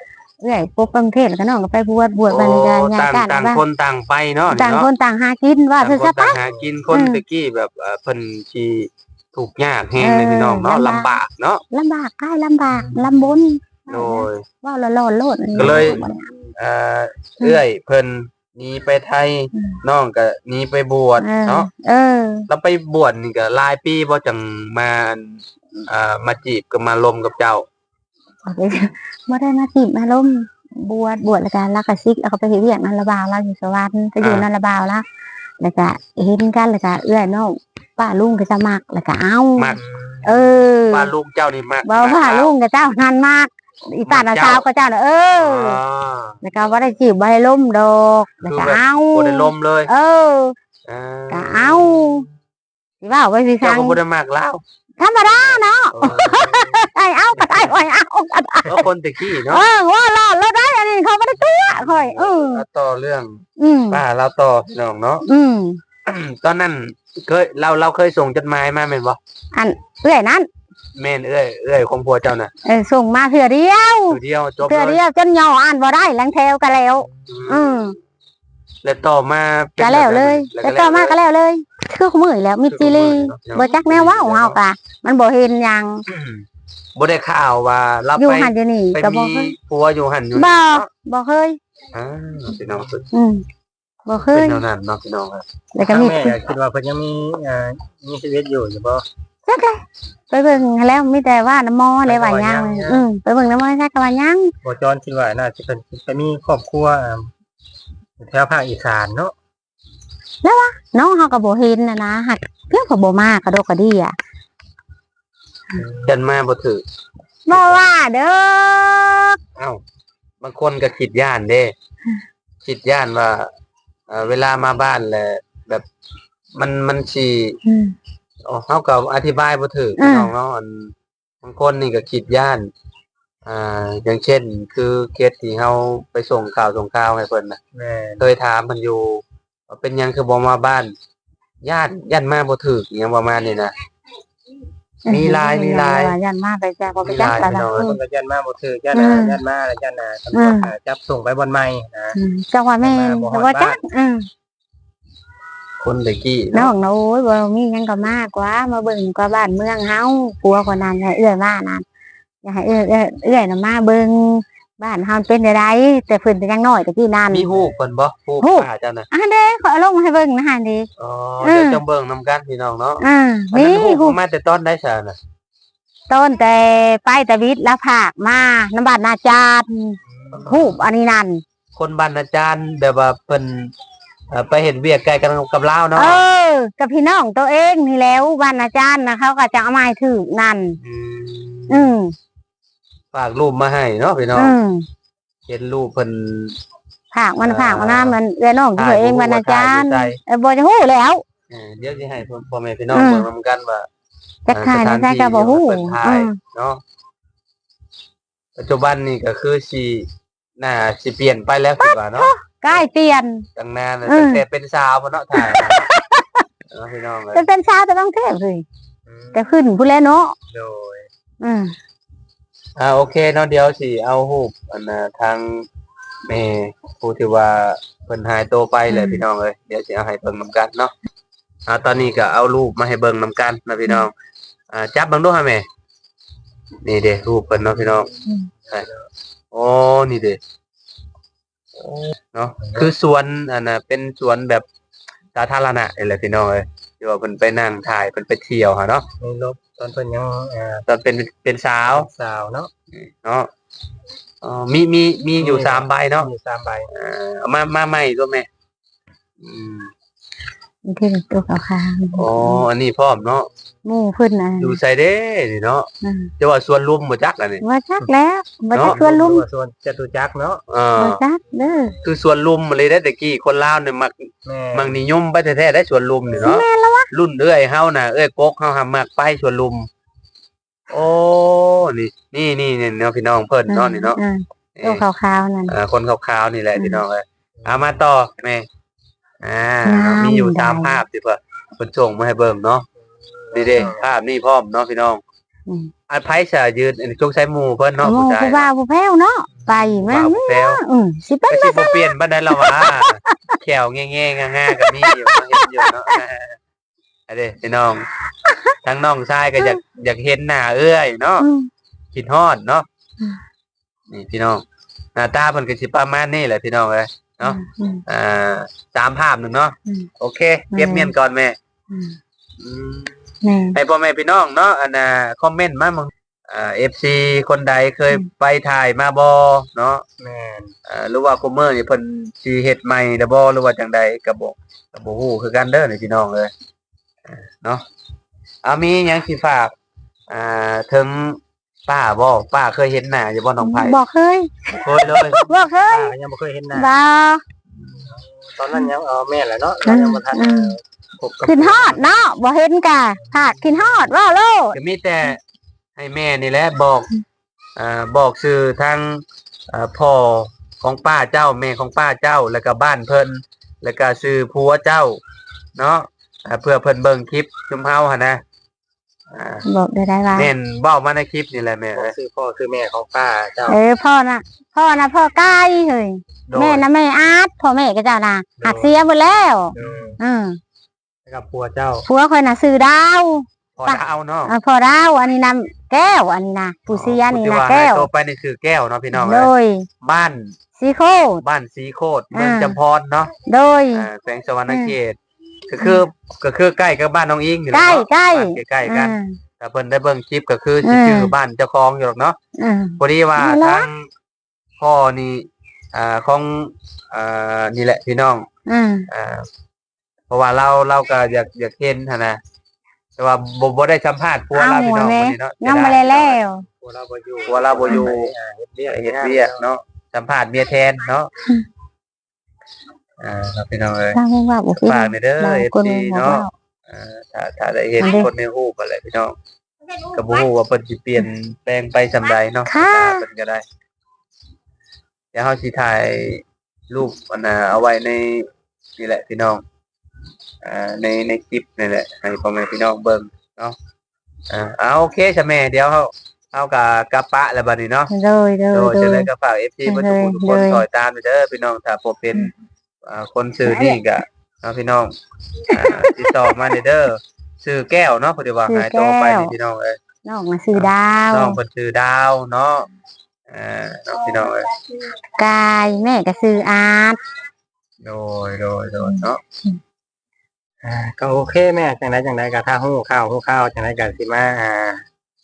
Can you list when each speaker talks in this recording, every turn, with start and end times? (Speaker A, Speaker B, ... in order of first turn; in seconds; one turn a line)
Speaker A: 0.4-3.6
Speaker B: 2.3-4.9
Speaker A: 4.5-6.4
Speaker B: 5.8-11.6
Speaker C: 6.4-6.8
Speaker A: 6.9-7.2
Speaker A: 10.0-11.1
Speaker A: 11.7-16.3
Speaker C: 12.7-13.3
Speaker B: 13.9-14.4
Speaker C: 15.5-16.0
Speaker B: 15.6-16.0
Speaker B: 16.6-21.7
Speaker A: 21.2-22.5
Speaker B: 22.5-27.6
Speaker A: 28.5-35.0
Speaker B: 34.2-34.5
Speaker A: 35.6-41.1
Speaker C: 39.8-40.5
Speaker B: 40.9-42.5
Speaker A: 41.9-45.8
Speaker B: 44.1-44.6
Speaker B: 45.4-46.4
Speaker A: 46.4-50.5
Speaker B: 48.5-49.9
Speaker B: 50.9-52.2
Speaker A: 51.3-52.2
Speaker A: 53.0-54.0
Speaker B: 53.6-54.6
Speaker A: 55.0-58.8
Speaker B: 55.9-56.8
Speaker B: 57.4-57.8
Speaker B: 58.7-59.6
Speaker A: 59.5-62.6
Speaker B: 61.4-65.2
Speaker A: 63.6-64.0
Speaker A: 65.3-65.8
Speaker B: 66.1-69.2
Speaker A: 69.5-70.5
Speaker B: 71.0-72.5
Speaker A: 72.7-78.0
Speaker B: 74.1-75.0
Speaker B: 77.3-77.7
Speaker B: 78.8-81.2
Speaker A: 79.8-86.0
Speaker B: 82.7-84.6
Speaker B: 86.1-86.4
Speaker B: 87.0-90.9
Speaker A: 88.2-89.5
Speaker A: 90.3-91.6
Speaker B: 91.9-93.1
Speaker A: 93.1-93.4
Speaker A: 94.1-94.6
Speaker B: 94.2-95.5
Speaker A: 95.7-96.4
Speaker C: 95.8-99.0
Speaker A: 99.5-104.5
Speaker C: 102.0-103.1
Speaker C: 104.6-107.3
Speaker C: 108.2-109.3
Speaker A: 110.4-114.2
Speaker B: 115.9-116.8
Speaker A: 117.5-119.4
Speaker B: 117.5-117.8
Speaker B: 119.6-119.8
Speaker B: 120.4-121.7
Speaker B: 122.6-123.5
Speaker B: 124.1-125.8
Speaker B: 126.6-127.6
Speaker A: 127.7-127.9
Speaker B: 128.4-132.7
Speaker A: 130.0-130.3
Speaker B: 133.5-137.6
Speaker C: 137.7-138.3
Speaker B: 138.2-140.9
Speaker B: 141.6-143.8
Speaker A: 145.1-148.0
Speaker B: 145.1-146.2
Speaker B: 147.0-147.9
Speaker C: 147.7-152.2
Speaker A: 148.9-149.4
Speaker A: 150.3-150.7
Speaker A: 152.2-154.2
Speaker C: 152.8-153.8
Speaker B: 155.8-156.7
Speaker A: 156.5-161.8
Speaker A: 162.4-167.5
Speaker B: 167.3-169.1
Speaker C: 167.6-167.9
Speaker A: 168.4-170.9
Speaker B: 171.0-175.2
Speaker A: 171.4-171.8
Speaker A: 173.0-174.2
Speaker A: 176.1-181.4
Speaker C: 180.1-180.4
Speaker B: 180.3-180.8
Speaker B: 181.7-183.7
Speaker B: 184.3-186.2
Speaker A: 186.0-190.8
Speaker B: 190.8-191.9
Speaker A: 191.7-192.1
Speaker B: 193.1-194.6
Speaker A: 194.4-194.8
Speaker B: 195.5-196.6
Speaker A: 197.1-201.2
Speaker B: 197.4-198.2
Speaker B: 198.8-200.2
Speaker B: 201.5-203.9
Speaker A: 202.9-203.3
Speaker A: 204.5-206.3
Speaker B: 204.5-206.8
Speaker B: 208.6-210.1
Speaker B: 210.6-212.9
Speaker A: 211.8-213.4
Speaker B: 213.6-215.9
Speaker A: 214.1-214.4
Speaker A: 215.3-216.4
Speaker B: 216.7-217.5
Speaker A: 217.3-218.7
Speaker C: 219.1-219.6
Speaker A: 219.3-220.3
Speaker C: 220.5-221.1
Speaker A: 221.4-221.7
Speaker B: 222.8-225.7
Speaker B: 226.3-230.9
Speaker A: 228.9-229.2
Speaker B: 231.7-234.1
Speaker B: 234.7-235.7
Speaker B: 236.8-238.1
Speaker C: 237.7-238.1
Speaker C: 238.6-239.0
Speaker B: 239.5-240.4
Speaker B: 241.8-244.7
Speaker B: 245.3-249.1
Speaker C: 249.2-250.8
Speaker B: 250.9-252.1
Speaker C: 251.8-252.7
Speaker B: 252.9-253.5
Speaker B: 254.4-256.3
Speaker C: 255.4-256.9
Speaker B: 256.9-258.5
Speaker B: 259.4-259.9
Speaker A: 260.9-262.6
Speaker B: 262.2-263.5
Speaker A: 263.9-264.8
Speaker B: 264.6-265.9
Speaker A: 266.0-266.3
Speaker B: 266.4-267.6
Speaker A: 267.6-269.5
Speaker B: 268.7-269.0
Speaker C: 268.9-270.6
Speaker B: 270.7-271.2
Speaker A: 271.0-271.9
Speaker C: 271.5-272.0
Speaker B: 272.0-279.9
Speaker C: 274.4-275.0
Speaker A: 276.4-277.1
Speaker B: 280.9-284.2
Speaker A: 283.7-285.7
Speaker B: 284.8-285.1
Speaker B: 285.7-288.7
Speaker A: 286.8-287.0
Speaker C: 287.6-287.9
Speaker B: 289.4-292.9
Speaker A: 289.9-291.0
Speaker C: 293.1-294.1
Speaker B: 293.5-295.2
Speaker B: 296.1-298.7
Speaker A: 298.0-303.6
Speaker B: 299.6-300.8
Speaker B: 301.5-306.6
Speaker A: 304.7-306.1
Speaker B: 307.3-308.1
Speaker A: 308.4-308.8
Speaker B: 308.8-311.5
Speaker A: 311.4-311.7
Speaker B: 312.1-312.9
Speaker B: 314.1-314.6
Speaker B: 315.2-321.6
Speaker A: 317.4-318.0
Speaker A: 320.7-321.1
Speaker A: 321.9-322.2
Speaker B: 322.6-330.0
Speaker A: 323.4-323.8
Speaker C: 330.2-330.7
Speaker B: 330.9-336.5
Speaker B: 337.3-337.8
Speaker B: 338.6-339.7
Speaker B: 340.3-344.0
Speaker A: 343.6-346.1
Speaker B: 344.7-345.5
Speaker C: 345.9-346.9
Speaker A: 346.7-347.4
Speaker C: 348.1-350.8
Speaker A: 349.9-350.7
Speaker B: 351.2-352.0
Speaker A: 351.4-354.8
Speaker C: 351.6-351.9
Speaker C: 353.2-354.1
Speaker B: 354.7-355.4
Speaker B: 356.0-357.1
Speaker B: 357.8-365.2
Speaker B: 365.8-368.4
Speaker B: 369.3-369.6
Speaker A: 369.6-370.5
Speaker B: 370.4-372.1
Speaker C: 371.9-373.8
Speaker A: 373.7-380.6
Speaker B: 376.5-376.9
Speaker C: 378.6-379.0
Speaker C: 379.8-380.2
Speaker B: 379.8-380.1
Speaker C: 381.3-382.1
Speaker A: 382.1-388.1
Speaker B: 383.8-384.5
Speaker B: 386.9-389.5
Speaker A: 389.1-389.9
Speaker B: 390.0-390.5
Speaker A: 390.8-391.4
Speaker B: 391.4-393.3
Speaker A: 392.3-392.8
Speaker A: 393.4-394.1
Speaker B: 393.9-402.4
Speaker A: 394.7-394.9
Speaker A: 397.7-399.3
Speaker A: 400.8-401.3
Speaker A: 402.6-403.9
Speaker B: 403.0-404.1
Speaker B: 404.8-408.4
Speaker A: 408.7-409.1
Speaker B: 409.1-409.4
Speaker B: 410.3-412.4
Speaker B: 413.2-416.4
Speaker A: 414.5-416.6
Speaker C: 416.7-419.7
Speaker B: 417.5-418.3
Speaker B: 418.8-421.3
Speaker B: 423.2-424.2
Speaker A: 424.1-426.5
Speaker B: 424.8-429.4
Speaker A: 428.0-428.3
Speaker B: 430.1-433.6
Speaker A: 432.7-433.2
Speaker B: 435.3-438.5
Speaker B: 439.0-439.6
Speaker B: 440.6-443.8
Speaker B: 444.5-448.1
Speaker A: 448.1-449.3
Speaker B: 448.7-452.5
Speaker A: 449.9-450.8
Speaker B: 453.1-455.1
Speaker A: 453.7-454.0
Speaker B: 455.7-460.0
Speaker A: 455.7-456.5
Speaker A: 458.7-459.5
Speaker A: 460.2-461.6
Speaker B: 460.8-462.9
Speaker B: 463.5-464.7
Speaker A: 465.4-467.2
Speaker B: 468.0-469.4
Speaker A: 469.0-469.8
Speaker C: 470.8-475.0